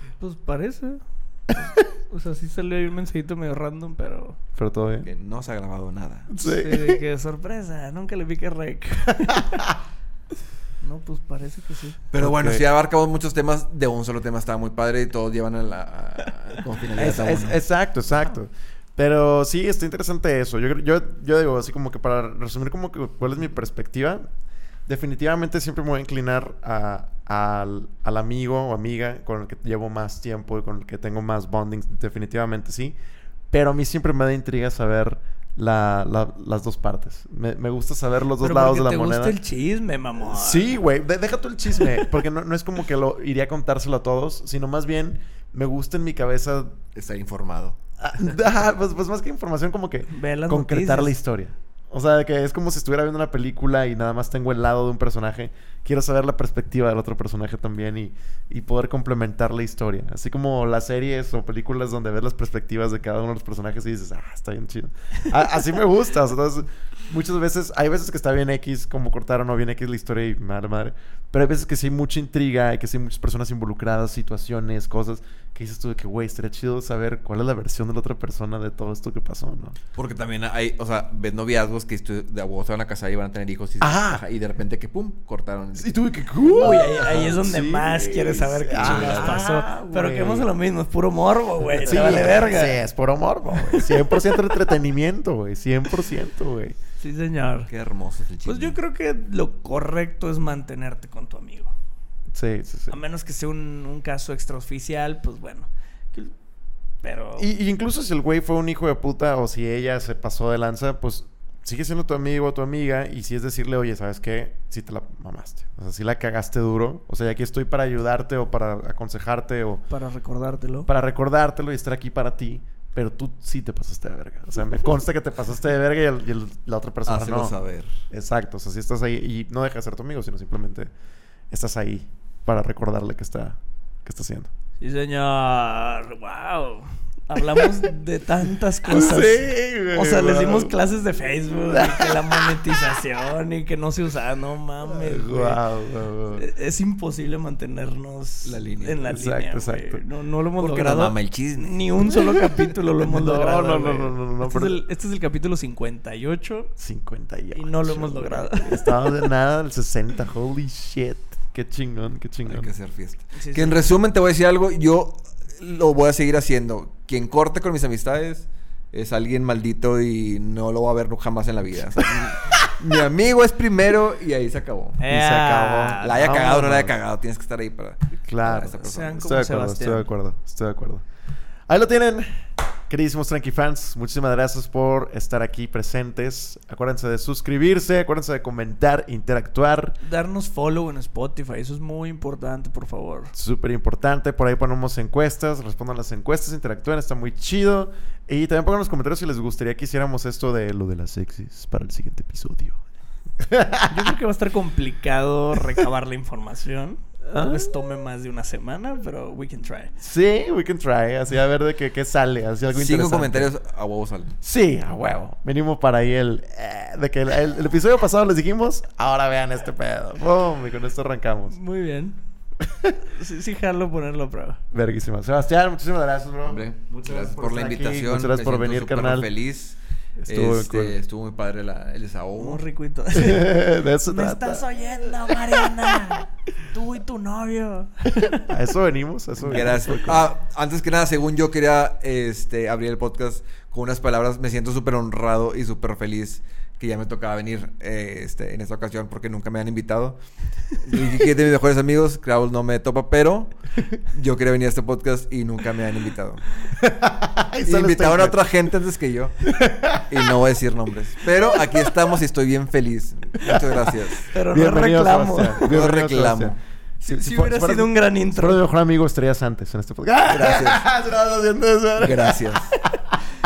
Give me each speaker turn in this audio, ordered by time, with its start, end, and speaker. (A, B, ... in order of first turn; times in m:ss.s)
0:00.2-0:01.0 A
0:01.5-0:04.4 A
0:04.6-0:05.1 B
0:05.0-0:06.3 C
0:06.3-0:07.0 B
0:06.4-0:09.6 A
0:10.8-0:12.0 A
0:12.1-0:17.6 C
0:12.2-0:12.6 B
0:17.0-0:24.3 B
0:24.9-0:33.0 B
0:33.5-0:39.4 B
0:38.4-0:40.8 A
0:40.3-0:46.8 B
0:47.0-0:47.8 C
0:48.0-1:19.8 B
0:50.1-0:51.2 A
1:20.0-1:26.0 C
1:23.8-1:24.2 B
1:25.8-1:30.5 B
1:26.5-1:32.8 A
1:27.0-1:27.3 C
1:28.8-1:29.5 C
1:31.8-1:36.8 B
1:31.8-1:32.4 C
1:33.6-1:34.2 A
1:37.0-1:37.7 A
1:37.7-1:38.8 C
1:38.5-1:41.7 A
1:42.3-1:43.0 B
1:42.9-1:46.3 A
1:47.0-1:47.5 A
1:47.4-1:59.8 B
1:59.9-2:00.9 A
2:00.9-2:07.6 B
2:07.1-2:07.9 C
2:08.1-2:10.9 B
2:11.5-2:14.5 B
2:14.8-2:25.6 A
2:18.9-2:20.8 B
2:21.7-2:22.8 B
2:24.9-2:26.4 B
2:26.4-2:36.7 A
2:28.4-2:29.1 C
2:29.0-2:30.0 B
2:30.6-2:32.7 C
2:33.0-2:34.8 B
2:36.8-2:42.7 B
2:37.6-2:39.2 A
2:42.5-2:55.0 C
2:43.4-2:43.8 A
2:52.0-2:52.6 B
2:55.0-2:56.2 A
2:55.1-2:57.0 B
2:56.0-2:59.2 C
2:58.2-3:01.0 B
2:58.7-3:00.1 A
3:01.7-3:10.0 B
3:10.0-3:13.3 A
3:13.3-3:22.8 B
3:23.4-3:24.1 B
3:23.9-3:29.9 A
3:27.3-3:27.7 B
3:30.0-3:33.5 B
3:32.7-3:34.3 C
3:34.4-3:41.6 B
3:41.5-3:42.2 A
3:42.7-3:43.0 B
3:43.0-3:44.6 A
3:44.7-3:49.3 B
3:46.5-3:52.6 C
3:50.2-3:51.0 B
3:52.4-3:58.5 A
3:53.1-3:54.7 B
3:58.4-4:00.2 B
3:59.4-4:10.2 C
4:10.8-4:13.5 C
4:14.1-4:16.4 C
4:16.8-4:18.4 B
4:17.7-4:24.3 C
4:19.4-4:20.3 B
4:23.4-4:23.7 B
4:24.3-4:25.7 A
4:24.5-4:26.6 B
4:25.6-4:26.6 C
4:27.0-4:28.6 A
4:27.1-4:33.2 B
4:30.3-4:30.9 C
4:32.0-4:32.7 C